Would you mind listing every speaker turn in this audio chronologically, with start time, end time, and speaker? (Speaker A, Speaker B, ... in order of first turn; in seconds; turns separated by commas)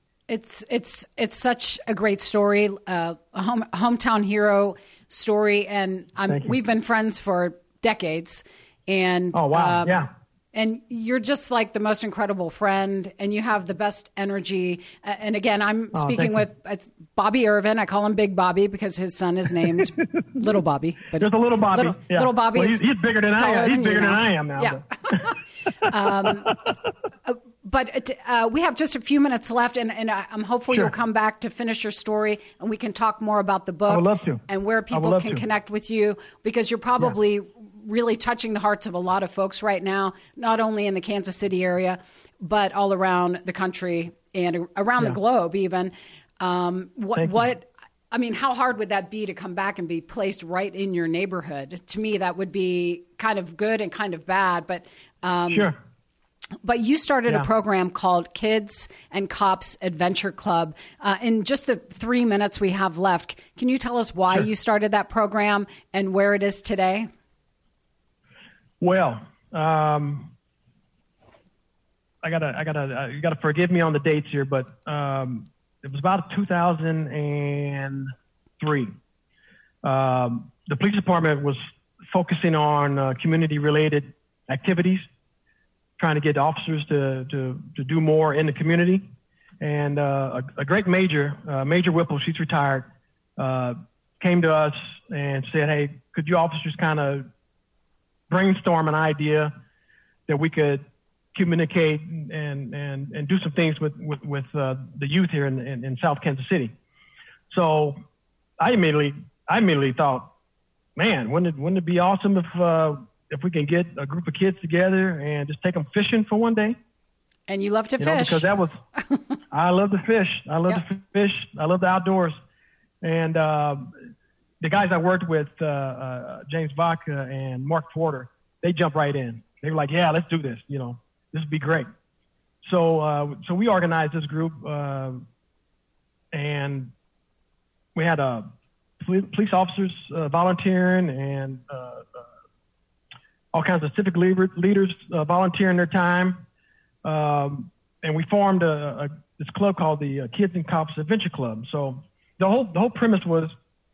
Speaker A: 0.3-22.8, Speaker B: 6.3-6.5, Speaker B: 9.3-10.1, Speaker B: 15.9-16.4, Speaker B: 21.1-26.5, Speaker A: 23.4-26.7, Speaker A: 27.2-55.7, Speaker B: 33.9-35.4, Speaker B: 47.1-47.5, Speaker B: 55.5-55.8, Speaker A: 56.6-67.1, Speaker B: 68.8-70.3, Speaker B: 72.2-78.9, Speaker B: 79.8-85.0, Speaker B: 86.0-89.1, Speaker B: 89.6-97.3, Speaker B: 98.3-99.5, Speaker B: 100.3-106.7, Speaker B: 107.5-108.0, Speaker B: 108.6-110.3, Speaker B: 111.0-116.8, Speaker A: 117.5-118.5, Speaker B: 118.0-118.7, Speaker B: 119.5-122.3, Speaker B: 123.0-123.9, Speaker B: 124.6-131.9, Speaker B: 132.6-135.2, Speaker B: 136.3-136.9, Speaker B: 137.9-138.5, Speaker B: 139.0-142.3, Speaker B: 143.5-146.4, Speaker B: 147.0-153.5